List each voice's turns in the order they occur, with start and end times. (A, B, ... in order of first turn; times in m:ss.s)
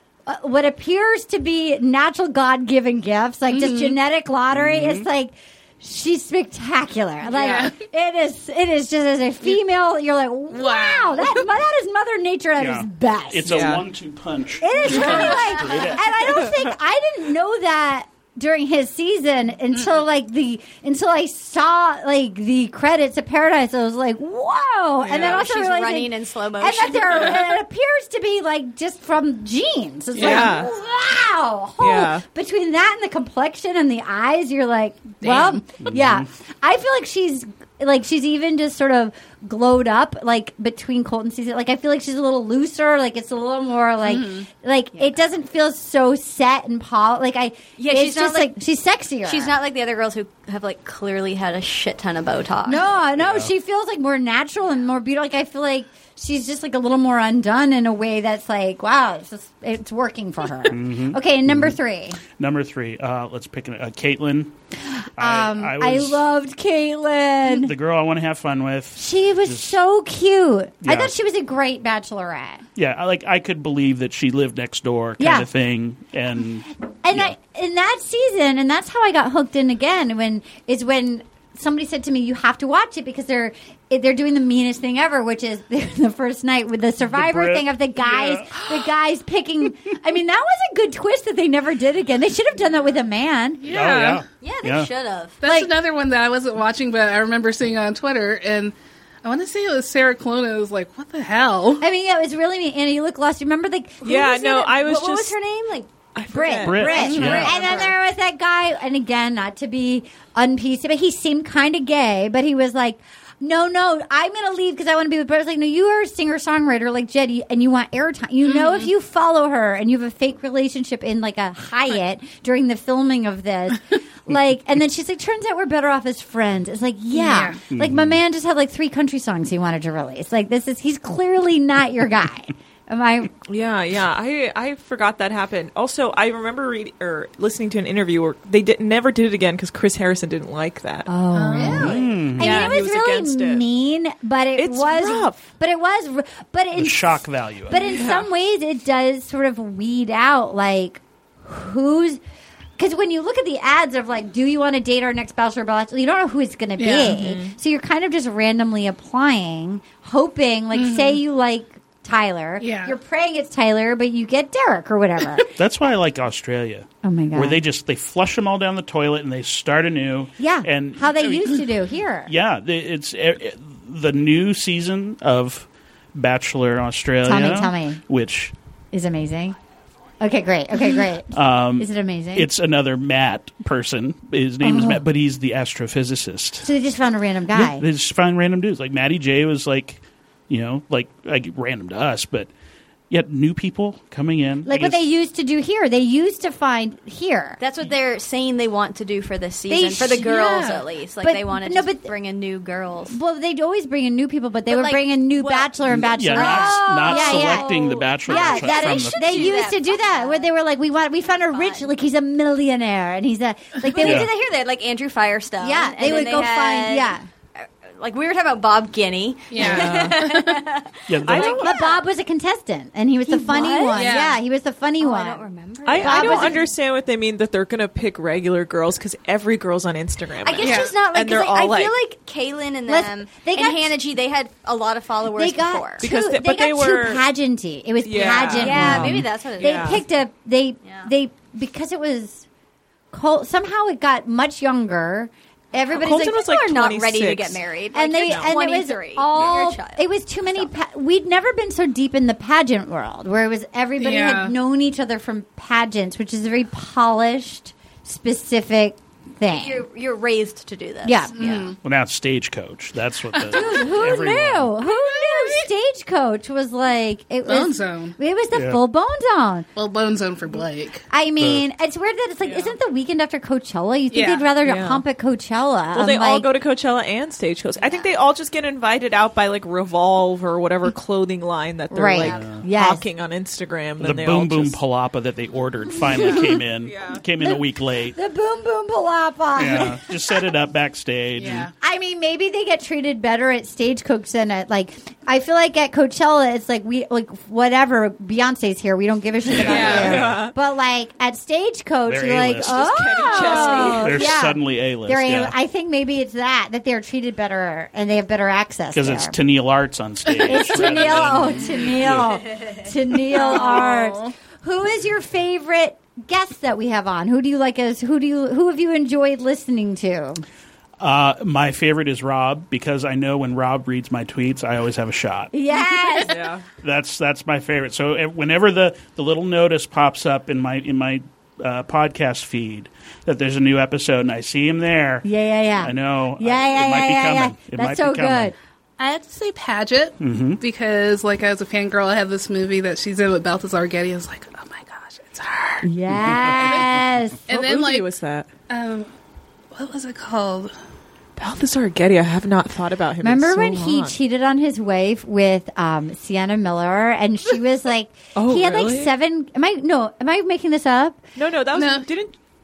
0:00.2-0:13.6 A
0:03.5-0:04.0 B
0:04.5-0:05.1 C
0:07.3-0:07.7 B
0:07.3-0:07.6 D
0:10.5-0:11.4 B
0:12.6-0:16.1 C
0:13.5-0:13.8 D
0:14.6-0:49.5 A
0:25.0-0:25.4 D
0:25.1-0:27.5 E
0:30.1-0:30.6 B
0:30.2-0:30.7 D
0:31.8-0:32.2 D
0:35.2-0:35.6 B
0:35.8-0:36.2 C
0:44.0-0:44.5 B
0:47.8-0:48.6 E
0:49.2-0:52.9 E
0:52.6-1:02.2 A
0:53.2-0:53.5 C
1:00.7-1:01.8 C
1:02.4-1:04.5 C
1:04.9-1:07.7 A
1:05.2-1:06.2 C
1:07.4-1:09.8 C
1:09.0-1:12.6 A
1:10.8-1:11.1 C
1:12.8-1:17.3 C
1:15.2-1:15.5 A
1:17.0-1:33.6 A
1:27.0-1:28.5 C
1:33.6-1:34.2 B
1:33.6-1:34.9 C
1:34.4-1:35.4 E
1:35.4-1:41.8 B
1:35.4-1:35.7 A
1:41.8-1:44.5 A
1:44.0-1:45.4 D
1:44.1-1:45.9 E
1:46.1-1:47.9 D
1:46.3-2:13.3 A
1:46.6-1:47.5 C
1:46.8-1:47.9 E
1:47.0-1:47.4 B
1:58.4-1:58.9 B
2:07.1-2:07.6 B
2:07.7-2:08.2 C
2:13.5-2:21.1 D
2:21.1-2:32.2 A
2:21.3-2:22.0 B
2:21.5-2:22.0 E
2:21.7-2:22.7 C
2:22.3-2:23.6 D
2:24.6-2:25.4 D
2:26.7-2:28.0 C
2:27.9-2:28.3 D
2:32.8-2:45.5 A
2:36.8-2:37.2 B
2:37.1-2:37.5 D
2:40.7-2:41.2 B
2:42.6-2:43.0 B
2:45.6-2:51.7 C
2:47.0-2:47.6 A
2:50.4-2:52.3 A
2:52.3-2:58.5 C
2:57.2-2:58.0 A
2:58.9-2:59.6 A
3:00.2-3:02.5 A
3:01.3-3:06.7 C
3:04.6-3:05.0 A
3:06.6-3:07.8 A
3:07.5-3:12.5 C
3:13.1-3:15.0 C
3:14.6-3:17.6 A
3:17.6-3:23.2 E
3:19.7-3:20.6 A
3:20.2-3:20.8 B
3:21.2-3:22.1 A
3:23.1-3:34.3 A
3:24.7-3:30.5 E
3:25.9-3:29.6 C
3:31.3-3:31.9 E
3:33.8-3:42.0 E
3:34.0-3:34.3 C
3:35.6-3:37.2 A
3:39.5-3:40.6 B
3:39.6-3:40.2 D
3:41.1-3:41.7 C
3:41.3-3:46.6 A
3:43.3-3:44.3 E
3:43.9-3:44.4 B
3:45.0-3:46.7 E
3:45.8-3:51.9 D
3:50.4-3:56.0 E
3:50.6-3:50.9 B
3:52.9-3:54.0 A
3:55.4-4:02.4 A
3:56.0-3:57.2 D
3:58.0-4:00.0 D
3:58.4-4:00.0 E
4:03.1-4:06.4 A
4:05.9-4:07.6 D
4:06.1-4:10.7 E
4:07.9-4:19.8 A
4:08.3-4:08.5 D
4:14.0-4:14.5 B
4:19.4-4:21.5 E
4:21.0-4:21.3 A
4:21.3-4:21.8 B
4:21.4-4:24.7 C
4:23.3-4:23.7 B
4:23.5-4:29.7 A
4:24.9-4:25.6 B
4:27.4-4:28.2 B
4:28.5-4:28.8 C
4:29.8-4:31.0 B
4:31.1-4:36.5 A
4:31.4-4:31.6 C
4:32.4-4:32.7 D
4:34.1-4:34.5 B
4:34.6-4:35.0 D
4:35.9-4:44.8 D
4:41.9-4:43.0 A
4:42.2-4:42.6 C
4:44.0-4:48.2 C
4:46.2-4:46.6 A
4:46.8-4:47.2 D
4:48.1-4:50.3 A
4:49.5-4:51.7 C
4:51.4-4:51.7 B
4:51.8-5:09.4 A
4:59.5-5:00.5 C
4:59.6-5:00.3 B
4:59.6-5:00.5 D
5:02.0-5:03.0 C
5:02.6-5:04.3 D
5:03.6-5:05.5 C
5:08.9-5:12.4 C
5:10.3-5:11.1 B
5:10.4-5:20.4 A
5:13.3-5:14.3 B
5:21.0-5:25.5 C
5:25.5-5:26.4 A
5:26.2-5:26.6 D
5:26.8-5:35.3 C
5:35.2-5:38.5 A
5:35.8-5:38.5 C
5:39.0-5:45.9 B
5:40.2-5:40.6 C
5:45.8-5:47.4 A
5:46.1-5:46.9 C
5:46.6-5:47.0 B
5:47.5-5:48.1 B
5:47.5-5:48.5 D
5:48.7-5:49.1 B
5:49.7-5:50.7 B
5:51.4-5:54.2 D
5:53.2-6:01.2 A
5:58.3-5:59.1 D
6:01.4-6:02.3 D
6:01.7-6:02.1 B